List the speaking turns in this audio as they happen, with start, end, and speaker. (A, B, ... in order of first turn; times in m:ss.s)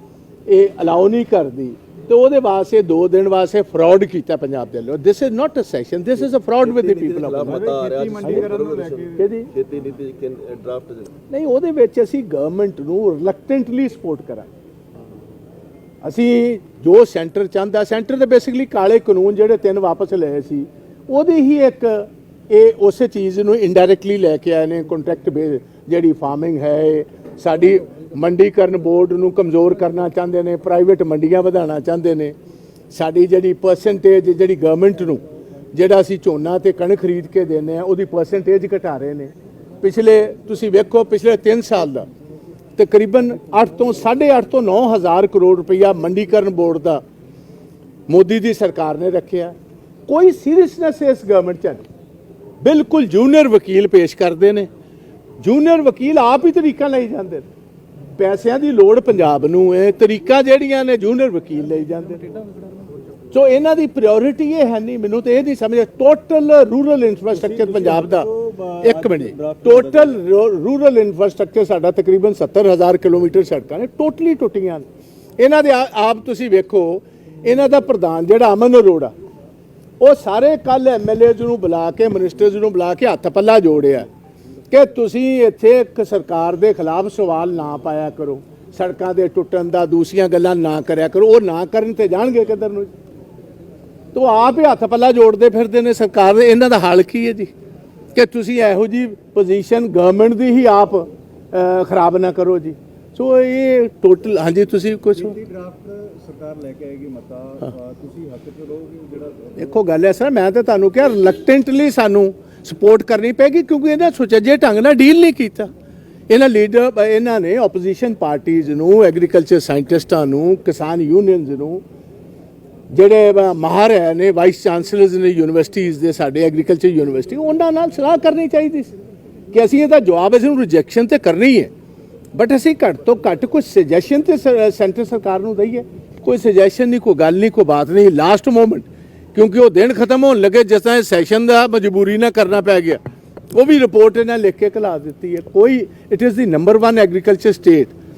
0:00.5-0:07.7 A
0:06.6-0:11.1 B
0:07.4-0:09.2 C
0:08.2-0:08.5 A
0:09.1-0:09.5 A
0:11.3-0:14.5 A
0:16.0-0:32.3 A
0:32.9-0:35.2 A
0:35.7-0:39.3 A
0:39.8-0:42.1 A
0:42.8-0:47.0 A
0:48.1-0:49.5 A
0:50.1-0:51.8 A
0:52.6-0:54.7 A
0:55.4-0:57.4 A
0:58.2-1:02.4 A
1:03.3-1:14.8 A
1:07.4-1:09.8 C
1:15.4-1:19.1 A
1:20.0-1:24.1 A
1:24.7-1:32.9 A
1:34.1-1:37.5 A
1:38.1-1:45.4 A
1:45.2-1:49.6 C
1:49.6-1:55.7 A
1:56.3-2:01.8 A
2:02.9-2:08.9 A
2:09.5-2:11.7 A
2:12.3-2:23.0 A
2:23.5-2:27.9 A